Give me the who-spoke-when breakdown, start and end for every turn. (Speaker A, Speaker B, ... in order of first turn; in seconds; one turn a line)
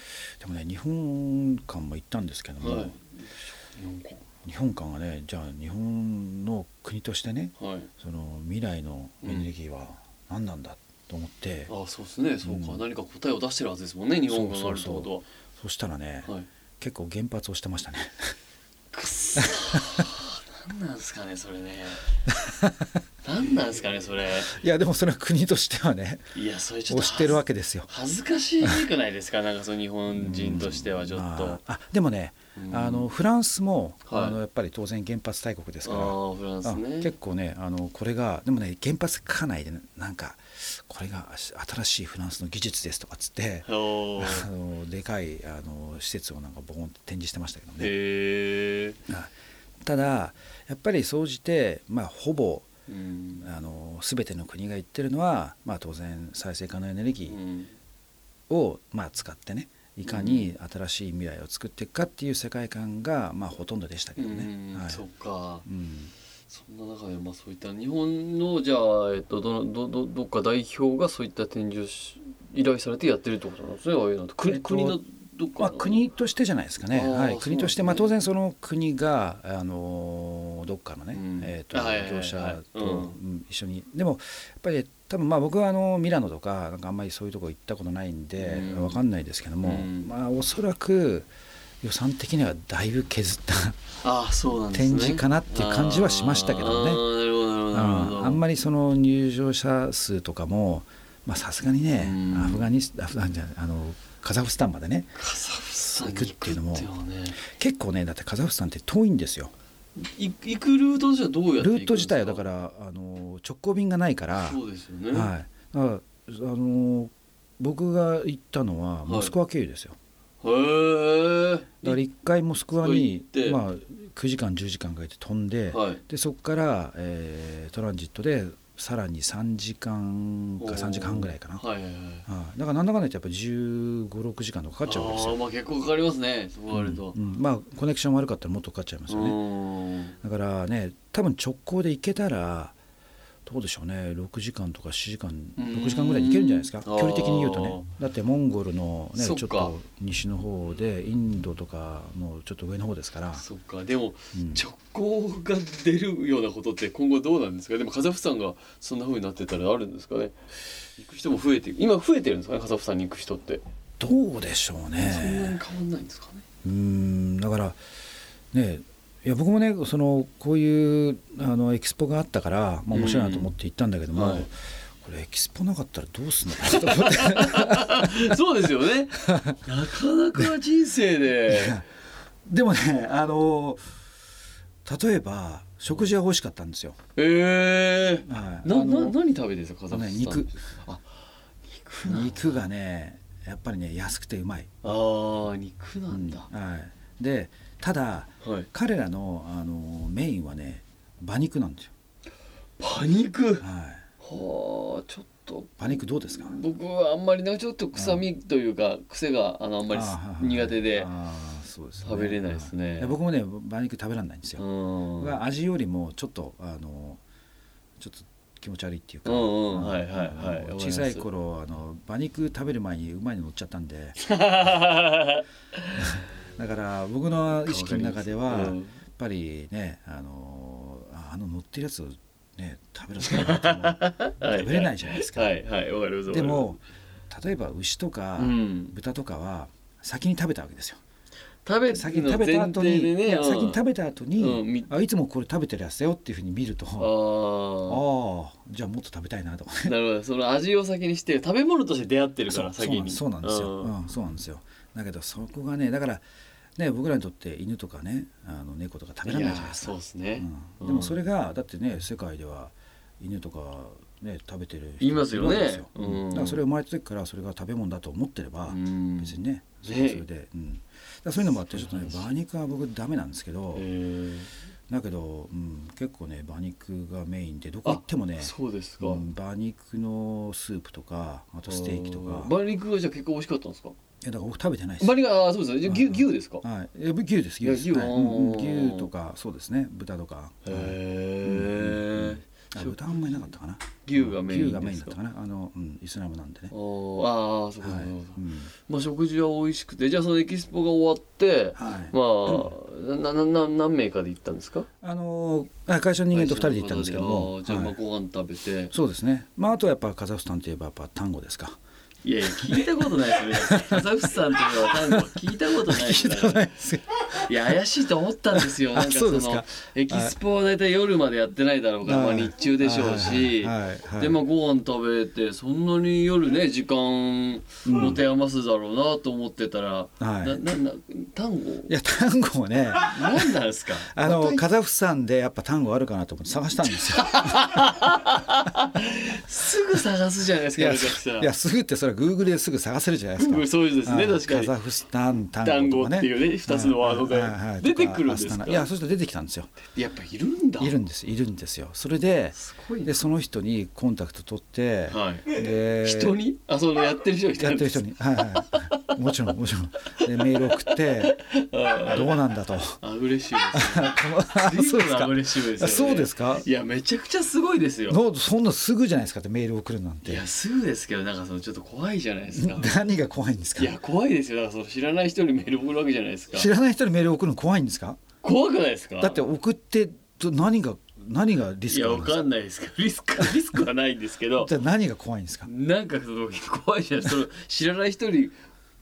Speaker A: 0.4-3.0
Speaker B: 2.6-4.2
Speaker A: 4.4-11.7
Speaker B: 7.6-7.9
Speaker B: 11.7-15.2
Speaker A: 12.4-12.8
Speaker A: 14.3-18.3
Speaker B: 18.9-22.1
Speaker A: 19.4-20.0
Speaker A: 22.3-22.9
Speaker B: 23.2-24.5
Speaker A: 24.4-26.2
Speaker B: 26.3-31.6
Speaker A: 26.9-27.9
Speaker A: 30.1-47.9
Speaker B: 32.5-33.1
Speaker B: 34.1-34.4
Speaker B: 35.9-37.1
Speaker B: 43.7-44.5
Speaker B: 47.8-49.0
Speaker A: 49.8-52.7
Speaker B: 52.9-53.5
Speaker A: 53.4-57.4
Speaker B: 57.3-57.7
Speaker A: 58.5-65.0
Speaker B: 60.1-60.5
Speaker B: 64.2-65.7
Speaker A: 65.7-66.1
Speaker B: 66.5-76.0
Speaker A: 74.4-75.0
Speaker A: 75.6-91.3
Speaker B: 76.9-78.1
Speaker B: 81.1-83.2
Speaker B: 88.4-89.0
Speaker B: 89.6-90.1
Speaker A: 91.8-93.8
Speaker B: 94.0-98.4
Speaker A: 94.7-97.1
Speaker A: 97.7-105.1
Speaker B: 102.0-102.7
Speaker B: 105.2-107.4
Speaker A: 105.9-106.9
Speaker A: 107.4-109.5
Speaker B: 110.0-112.4
Speaker A: 111.6-114.6
Speaker B: 114.4-115.3
Speaker A: 115.1-120.0
Speaker B: 119.1-119.3
Speaker B: 120.4-122.0
Speaker A: 121.8-131.6
Speaker B: 122.7-123.6
Speaker B: 125.7-126.0
Speaker B: 130.6-132.3
Speaker A: 132.3-135.4
Speaker B: 134.9-137.2
Speaker A: 136.7-139.4
Speaker B: 139.1-140.2
Speaker A: 140.2-142.8
Speaker A: 143.5-153.4
Speaker B: 145.6-147.9
Speaker B: 149.2-149.8
Speaker B: 153.3-163.6
Speaker A: 154.3-154.6
Speaker A: 164.0-165.6
Speaker B: 165.0-166.4
Speaker A: 166.6-167.8
Speaker A: 168.5-178.3
Speaker B: 172.9-173.5
Speaker B: 174.1-174.5
Speaker B: 176.7-181.8
Speaker A: 179.3-179.6
Speaker A: 181.5-181.9
Speaker A: 182.5-183.8
Speaker A: 184.8-187.0
Speaker B: 187.2-191.1
Speaker A: 188.2-189.2
Speaker A: 189.9-190.6
Speaker B: 191.8-192.7
Speaker A: 192.0-194.8
Speaker B: 194.8-196.5
Speaker A: 196.1-201.9
Speaker B: 198.4-198.7
Speaker B: 202.8-203.7
Speaker A: 203.6-204.0
Speaker B: 204.2-211.1
Speaker A: 205.8-206.6
Speaker A: 207.9-208.3
Speaker A: 209.9-214.6
Speaker B: 212.0-213.2
Speaker B: 214.6-215.4
Speaker A: 215.2-217.2
Speaker A: 218.0-224.2
Speaker B: 219.3-221.3
Speaker B: 224.2-225.4
Speaker A: 226.0-235.6
Speaker B: 227.7-228.9
Speaker B: 233.3-236.7
Speaker A: 236.3-241.0
Speaker B: 238.4-239.0
Speaker B: 241.7-243.8
Speaker A: 241.9-247.2
Speaker B: 244.4-244.9
Speaker B: 247.0-248.0
Speaker A: 247.9-249.9
Speaker B: 249.8-253.9
Speaker A: 252.5-256.2
Speaker A: 256.8-273.9
Speaker B: 259.2-261.2
Speaker B: 265.0-266.6
Speaker B: 268.7-270.2
Speaker B: 271.4-272.3
Speaker B: 273.7-274.5
Speaker A: 274.9-282.5
Speaker B: 277.9-279.2
Speaker B: 281.7-283.9
Speaker A: 284.2-285.2
Speaker B: 285.0-286.6
Speaker A: 285.8-296.7
Speaker B: 287.6-289.1
Speaker B: 290.6-293.5
Speaker B: 294.0-295.2
Speaker B: 296.7-304.9
Speaker A: 297.8-298.7
Speaker A: 301.8-302.7
Speaker A: 305.0-308.0
Speaker B: 306.3-308.9
Speaker A: 308.9-311.8
Speaker B: 312.2-316.7
Speaker A: 312.5-312.9
Speaker A: 313.5-317.8
Speaker B: 317.4-331.9
Speaker A: 318.5-320.4
Speaker A: 322.1-324.4
Speaker A: 327.8-328.2
Speaker A: 330.2-330.6
Speaker A: 331.9-333.6
Speaker B: 333.1-334.6
Speaker A: 334.1-337.7
Speaker B: 337.2-341.5
Speaker A: 340.7-349.7
Speaker B: 343.4-344.7
Speaker B: 345.6-348.9
Speaker B: 349.9-351.0
Speaker A: 350.8-356.4
Speaker B: 352.6-353.1
Speaker B: 355.1-359.1
Speaker A: 357.6-361.4
Speaker B: 360.3-362.4
Speaker A: 362.0-363.0
Speaker B: 363.0-368.2
Speaker A: 363.7-366.7
Speaker A: 368.1-370.5
Speaker B: 370.2-372.9
Speaker A: 372.6-374.0
Speaker B: 373.8-376.7
Speaker A: 376.5-378.2
Speaker B: 378.4-379.4
Speaker A: 379.2-382.4
Speaker B: 381.9-384.7
Speaker A: 383.4-383.8
Speaker A: 384.6-385.7
Speaker B: 385.6-388.6